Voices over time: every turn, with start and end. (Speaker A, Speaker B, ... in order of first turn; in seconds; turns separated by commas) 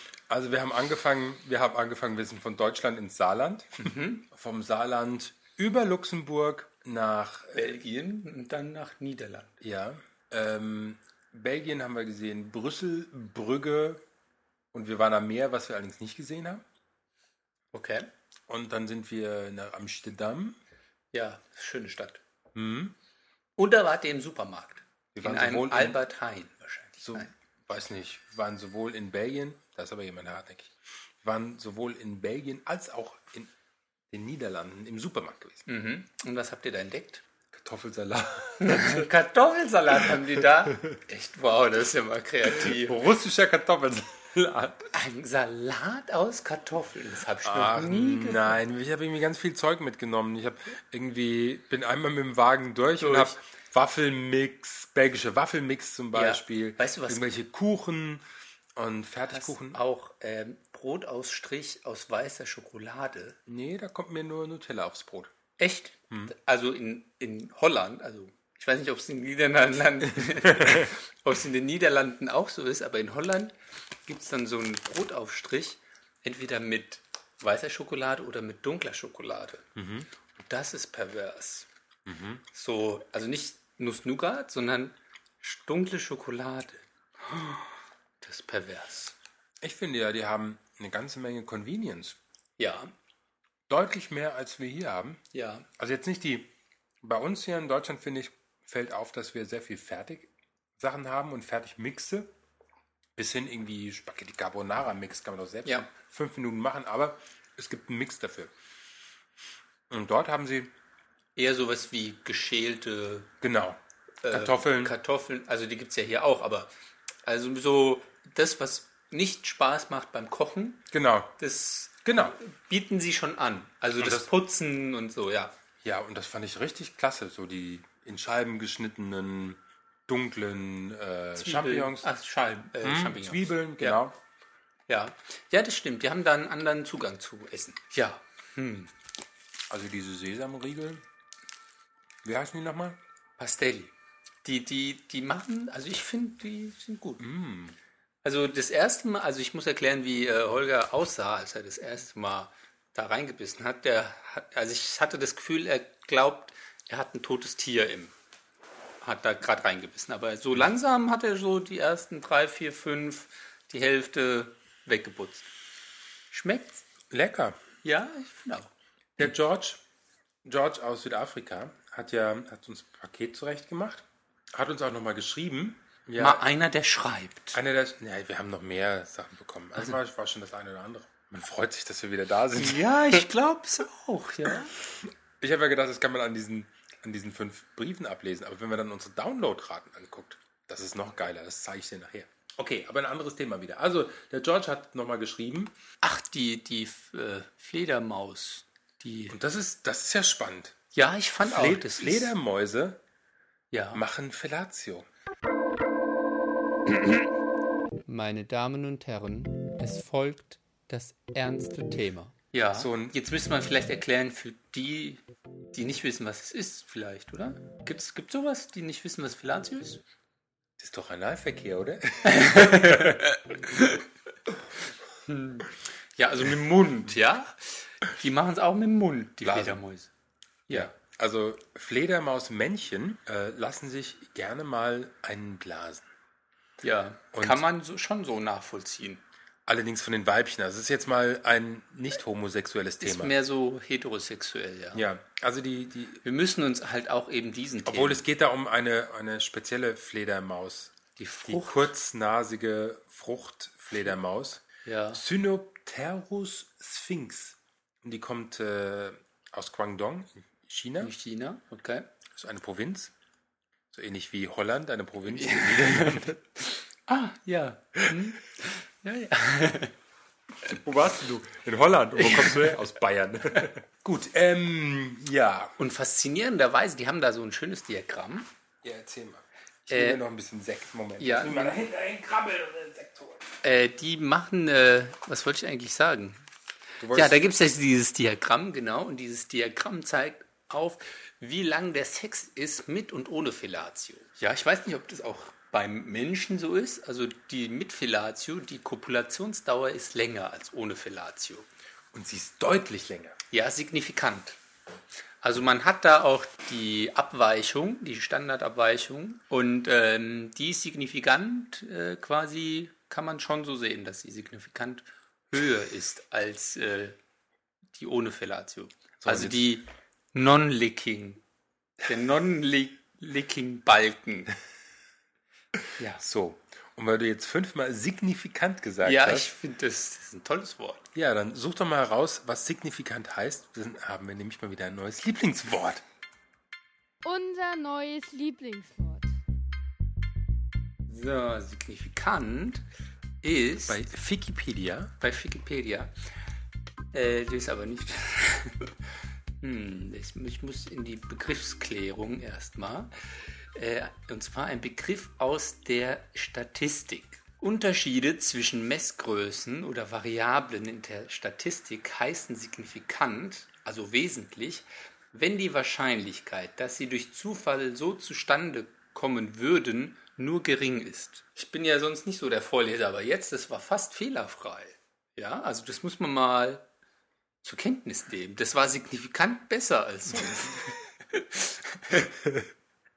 Speaker A: 0.3-7.7, Speaker B: 3.8-4.2, Speaker B: 7.5-9.6, Speaker A: 9.6-14.0, Speaker A: 14.7-16.6, Speaker B: 17.7-18.1, Speaker A: 18.5-20.6, Speaker B: 21.1-22.2, Speaker A: 22.6-22.9, Speaker B: 23.6-27.3, Speaker A: 25.1-26.0, Speaker A: 27.0-33.5, Speaker A: 34.1-35.7, Speaker B: 35.7-37.2, Speaker A: 37.5-39.1, Speaker B: 38.6-43.0, Speaker A: 42.6-44.9, Speaker B: 44.9-48.6, Speaker A: 47.4-58.2, Speaker B: 53.0-53.4, Speaker B: 56.1-57.3, Speaker A: 58.8-59.8, Speaker B: 59.3-63.4, Speaker A: 63.5-65.3, Speaker B: 65.6-73.5, Speaker A: 70.6-70.9, Speaker B: 74.1-79.7, Speaker A: 79.8-80.1, Speaker B: 80.4-81.7, Speaker A: 82.1-82.5, Speaker B: 82.5-89.2, Speaker A: 89.6-92.2, Speaker B: 92.6-92.9, Speaker A: 93.7-95.2, Speaker B: 95.3-95.7, Speaker A: 95.8-102.3, Speaker A: 103.2-108.5, Speaker A: 109.9-110.7, Speaker B: 111.4-113.3, Speaker A: 113.4-115.0, Speaker B: 114.2-116.7, Speaker B: 117.2-120.9, Speaker A: 120.9-121.3, Speaker B: 121.4-125.5, Speaker A: 122.0-122.4, Speaker A: 124.0-124.3, Speaker A: 125.8-132.1, Speaker B: 131.4-134.0, Speaker A: 132.8-134.2, Speaker B: 134.9-138.9, Speaker A: 139.7-141.0, Speaker A: 142.2-143.0, Speaker B: 143.4-143.9, Speaker B: 144.4-147.2, Speaker A: 147.2-147.8, Speaker B: 148.2-158.1, Speaker B: 159.0-165.5, Speaker B: 166.3-166.8, Speaker A: 167.1-167.6, Speaker B: 167.8-168.7, Speaker A: 169.2-169.8, Speaker A: 170.4-176.4, Speaker B: 176.2-177.6, Speaker A: 177.5-183.2, Speaker B: 182.6-184.7, Speaker A: 185.4-195.7, Speaker B: 196.0-199.4, Speaker A: 199.3-200.8, Speaker B: 200.9-202.3, Speaker A: 201.4-203.0, Speaker B: 203.7-204.0, Speaker A: 203.9-205.1, Speaker B: 206.9-207.3, Speaker B: 208.1-220.0, Speaker A: 212.8-213.2, Speaker A: 220.8-223.3, Speaker B: 222.2-224.1, Speaker B: 225.3-230.1, Speaker A: 229.4-229.8, Speaker A: 230.7-236.1, Speaker B: 236.8-239.2, Speaker A: 237.3-237.7, Speaker A: 239.7-243.3, Speaker B: 243.0-245.0, Speaker A: 244.9-246.2, Speaker B: 246.2-248.2, Speaker A: 247.8-261.1, Speaker B: 251.2-251.9, Speaker B: 254.8-255.2, Speaker B: 261.0-262.1, Speaker A: 262.4-263.1, Speaker A: 263.9-266.4, Speaker B: 265.3-269.9, Speaker A: 270.7-275.8, Speaker B: 272.2-272.8, Speaker B: 275.8-278.5, Speaker A: 278.8-283.4, Speaker B: 279.9-280.2, Speaker B: 281.2-281.8, Speaker B: 283.6-286.4, Speaker A: 287.0-287.5, Speaker B: 287.1-301.7, Speaker A: 302.1-303.4, Speaker B: 303.5-304.6, Speaker B: 305.4-317.2, Speaker B: 317.9-321.4, Speaker A: 319.2-319.7, Speaker B: 322.0-324.5, Speaker A: 326.2-329.5, Speaker B: 329.0-331.1, Speaker A: 331.1-336.0, Speaker C: 337.2-339.3, Speaker B: 341.1-342.9, Speaker B: 343.4-344.0, Speaker A: 343.9-345.1, Speaker B: 345.2-346.1, Speaker B: 347.1-348.9, Speaker B: 349.6-353.1, Speaker B: 353.7-376.9, Speaker B: 377.6-382.3, Speaker A: 382.3-382.7